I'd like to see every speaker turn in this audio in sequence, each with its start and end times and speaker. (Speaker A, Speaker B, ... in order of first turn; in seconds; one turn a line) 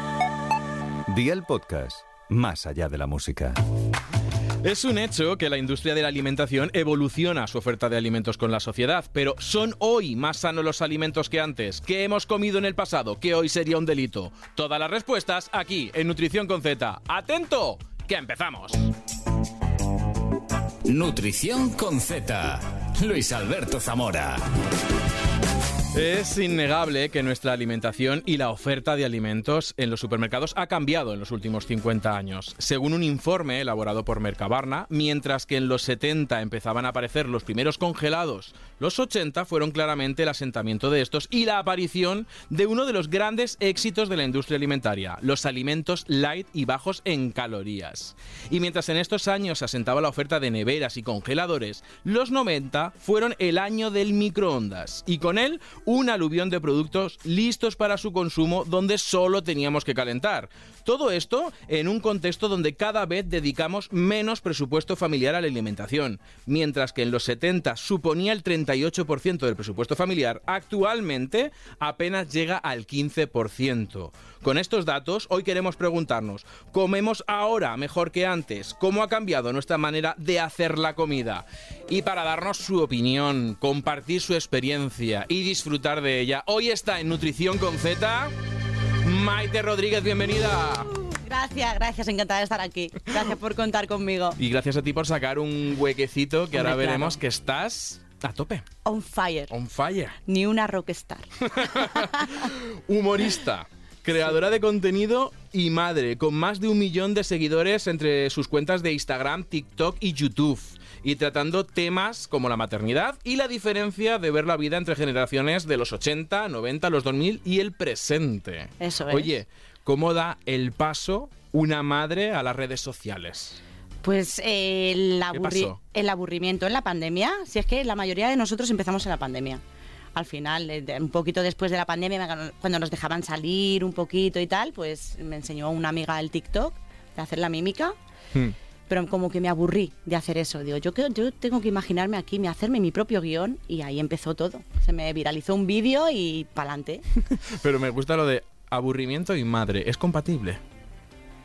Speaker A: 1.1-3.6
Speaker B: 4.6-18.9
Speaker C: 20.9-24.5
Speaker B: 25.9-88.3
Speaker B: 89.0-91.0
Speaker D: 91.1-94.4
Speaker B: 94.4-98.7
Speaker D: 96.5-97.2
Speaker D: 98.8-99.5
Speaker B: 99.5-100.2
Speaker D: 100.2-102.3
Speaker B: 101.4-123.6
Speaker D: 118.8-119.3
Speaker D: 124.0-129.6
Speaker B: 125.3-125.8
Speaker D: 130.2-137.9
Speaker D: 138.9-147.1
Speaker B: 147.3-150.6